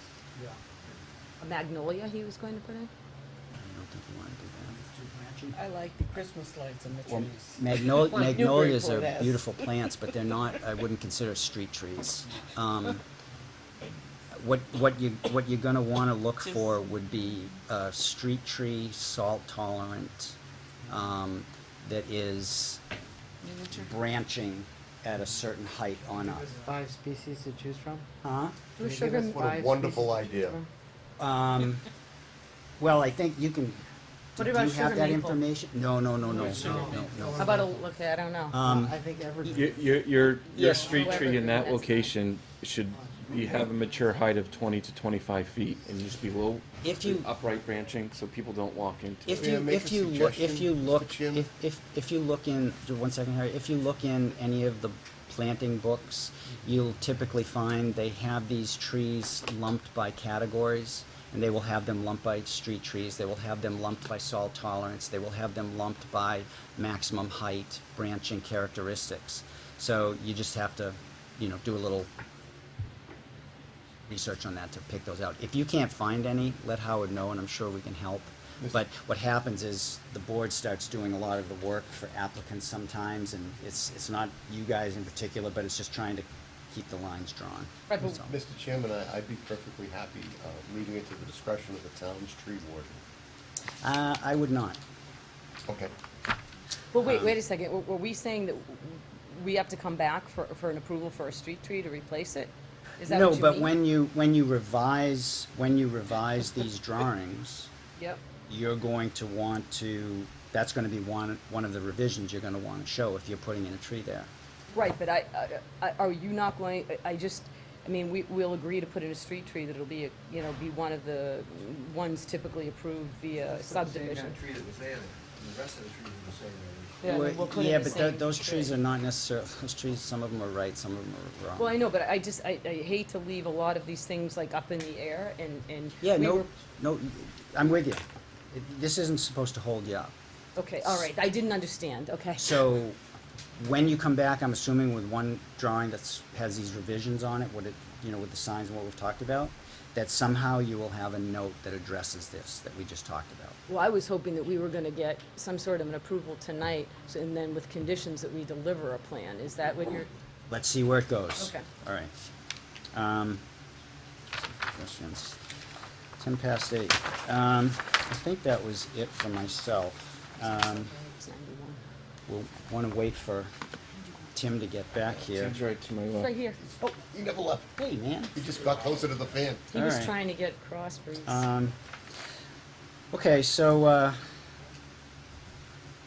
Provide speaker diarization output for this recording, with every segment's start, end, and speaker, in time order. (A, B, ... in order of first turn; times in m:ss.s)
0:01.4-0:02.9 A
0:03.6-0:05.6 B
0:05.6-0:09.8 C
0:07.1-0:13.0 B
0:14.3-0:20.4 B
0:20.9-0:22.8 B
0:23.6-0:26.5 B
0:26.2-0:28.1 D
0:28.2-0:28.6 B
0:28.8-0:29.4 A
0:28.8-0:30.6 D
0:29.3-0:30.6 E
0:31.2-0:31.9 B
0:32.8-0:33.8 B
0:34.4-0:37.6 B
0:34.4-0:35.4 A
0:36.3-0:36.8 F
0:36.4-0:37.8 D
0:37.4-0:38.6 A
0:38.5-0:39.6 B
0:38.6-0:40.0 D
0:39.5-0:49.5 F
0:40.5-0:42.1 A
0:40.5-0:41.0 B
0:46.8-0:47.3 B
0:49.3-1:12.1 B
0:49.3-0:51.5 E
1:14.1-1:28.4 B
1:27.9-1:28.2 A
1:28.0-1:33.0 E
1:33.8-1:34.8 B
1:35.7-1:35.9 E
1:36.9-1:43.7 A
1:37.0-1:37.3 B
1:43.0-1:47.7 B
1:48.0-1:48.2 A
1:48.5-1:54.3 B
1:54.7-2:04.4 A
2:03.9-2:06.9 G
2:07.0-2:08.7 A
2:07.0-2:11.8 B
2:11.6-2:16.5 A
2:16.0-2:20.1 B
2:20.6-2:22.6 A
2:22.4-2:23.0 B
2:23.6-2:33.6 B
2:33.7-2:40.1 A
2:40.5-2:42.1 B
2:41.4-2:41.6 A
2:42.9-2:43.4 B
2:44.4-2:45.4 B
2:46.2-2:50.9 B
2:50.4-2:51.8 A
2:52.3-2:53.5 B
2:54.3-2:55.6 B
2:55.3-2:56.3 F
2:56.2-2:56.6 A
2:56.6-2:57.7 E
2:57.7-2:58.4 B
2:58.3-2:59.6 E
2:59.7-3:01.4 A
2:59.7-3:00.1 B
3:01.2-3:01.8 B
3:03.1-3:04.2 B